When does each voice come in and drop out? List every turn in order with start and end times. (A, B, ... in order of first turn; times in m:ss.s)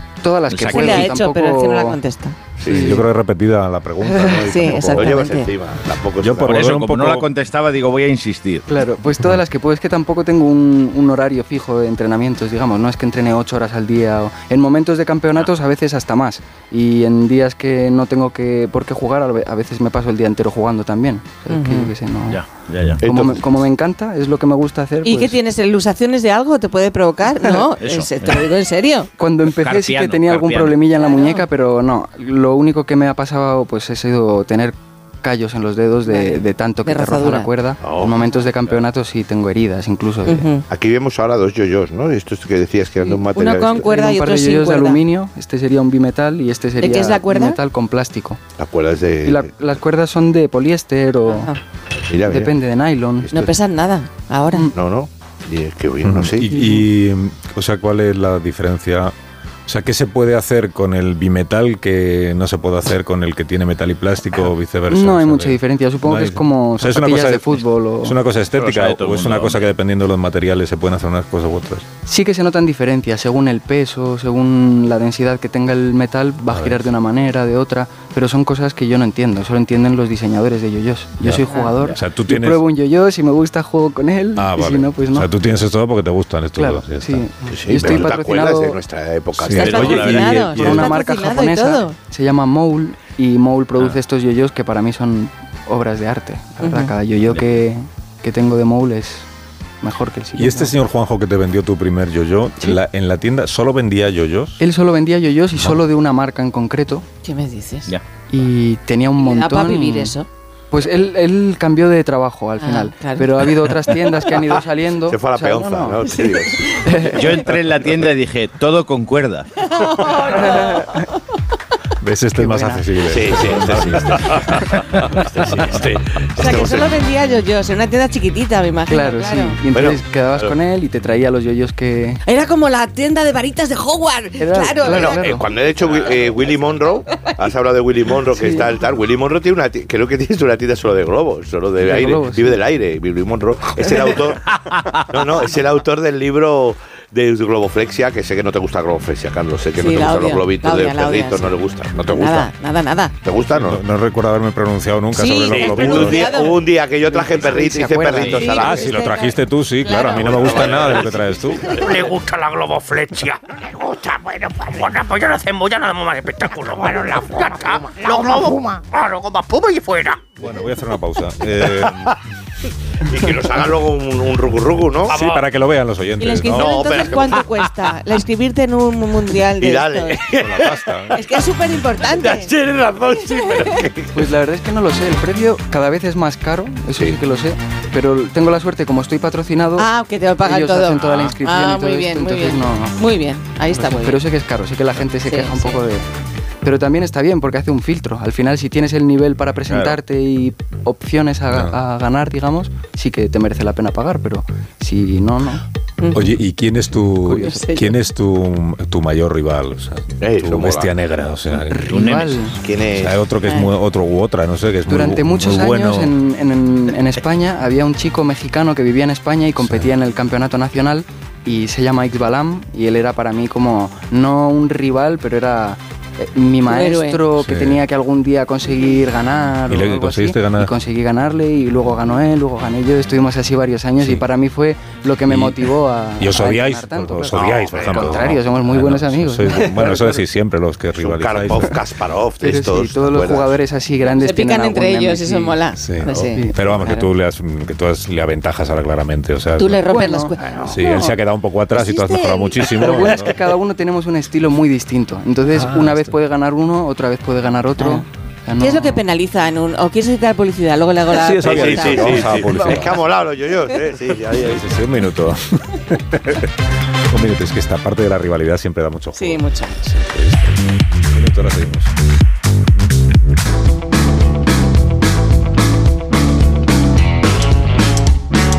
0:00.2-0:02.0 A
0:00.5-0:01.1 B
0:00.6-0:02.3 C
0:02.6-0:03.0 D
0:02.6-0:03.0 A
0:02.6-0:05.2 E
0:04.3-0:05.5 C
0:04.7-0:06.7 D
0:06.2-0:07.3 E
0:06.4-0:08.6 B
0:08.7-0:22.4 A
0:21.5-0:21.9 C
0:22.3-0:23.0 B
0:23.0-0:23.5 D
0:23.0-0:25.4 A
0:25.0-0:29.1 C
0:27.8-0:28.4 B
0:29.2-0:40.5 A
0:29.5-0:30.8 B
0:31.0-0:31.4 C
0:36.0-0:37.5 C
0:37.8-0:38.1 D
0:40.2-0:40.6 C
0:40.7-0:43.8 D
0:43.0-0:45.0 C
0:43.8-0:48.4 A
0:46.8-0:47.6 C
0:48.6-0:49.4 D
0:49.2-0:51.5 A
0:51.2-0:51.6 C
0:52.1-0:52.5 D
0:52.3-0:53.5 A
0:53.3-0:54.7 C
0:54.7-0:56.5 D
0:56.0-0:59.1 E
0:56.5-0:56.8 A
0:59.7-1:11.8 E
1:04.9-1:08.2 A
1:08.5-1:09.6 B
1:12.0-1:25.3 A
1:16.5-1:16.9 E
1:21.2-1:22.6 E
1:21.5-1:21.7 C
1:24.4-1:27.2 E
1:26.6-1:28.8 A
1:27.5-1:30.4 D
1:27.8-1:28.1 E
1:29.4-1:30.9 E
1:29.5-1:32.0 C
1:30.4-1:39.2 A
1:36.6-1:36.9 C
1:39.8-1:40.7 A
1:40.3-1:44.6 E
1:44.6-1:47.0 A
1:47.2-1:47.9 C
1:48.3-1:50.1 A
1:49.2-1:50.3 C
1:50.7-1:56.0 A
1:52.6-1:53.5 C
1:55.1-1:56.9 D
1:56.2-1:56.7 C
1:56.8-1:57.3 A
1:57.1-1:59.5 B
1:59.7-2:01.0 C
2:00.3-2:01.1 A
2:02.0-2:05.0 E
2:02.4-2:02.8 A
2:03.0-2:06.9 D
2:06.4-2:09.6 C
2:08.9-2:12.2 A
2:09.7-2:10.5 D
2:12.2-2:15.2 C
2:14.4-2:15.4 A
2:14.8-2:32.5 D
2:21.8-2:22.6 A
2:29.8-2:33.1 C
2:33.2-2:33.8 D
2:33.5-2:36.4 E
2:35.2-2:36.6 C
2:35.5-2:39.0 D
2:37.0-2:38.6 A
2:38.2-2:40.3 C
2:38.6-2:41.8 E
2:40.1-2:42.2 D
2:41.8-2:43.6 F
2:43.8-2:44.2 D
2:44.3-2:50.2 F
2:46.8-2:48.8 D
2:50.4-2:52.1 E
2:51.8-2:52.1 D
2:53.0-2:55.2 D
2:55.1-2:56.8 E
2:56.2-3:00.2 C
2:56.5-2:57.7 D
2:59.6-3:01.3 D
3:00.3-3:01.2 E
3:01.1-3:02.5 C
3:02.1-3:04.1 D
3:04.1-3:09.9 A
3:09.8-3:14.2 C
3:10.4-3:13.0 A
3:13.7-3:16.0 A
3:15.2-3:15.8 C
3:16.6-3:25.6 A
3:19.7-3:20.0 B
3:21.5-3:21.8 E
3:26.0-3:26.3 C
3:26.1-3:32.0 E
3:27.2-3:27.7 A
3:27.4-3:27.9 C
3:30.2-3:30.9 D
3:31.6-3:32.6 A
3:31.9-3:32.4 B
3:32.6-3:33.2 D
3:33.0-3:36.1 E
3:33.4-3:33.7 C
3:34.9-4:00.1 A
3:39.6-3:39.9 E
3:46.6-3:47.2 C
3:47.4-3:47.8 E
3:49.6-3:50.7 E
3:54.0-3:54.2 E
3:55.2-4:01.8 E
3:57.3-3:58.3 D
4:01.0-4:03.6 D
4:02.4-4:05.6 A
4:04.2-4:07.0 C
4:05.8-4:09.8 E
4:09.6-4:11.1 C
4:09.8-4:10.3 A
4:10.4-4:10.8 D
4:10.6-4:13.4 E
4:11.7-4:13.0 C
4:12.7-4:19.0 A
4:15.5-4:16.1 E
4:17.8-4:18.0 C
4:18.6-4:22.9 C
4:21.1-4:23.0 E
4:21.4-4:24.7 D
4:24.4-4:26.5 E
4:27.1-4:31.9 E
4:29.1-4:29.9 C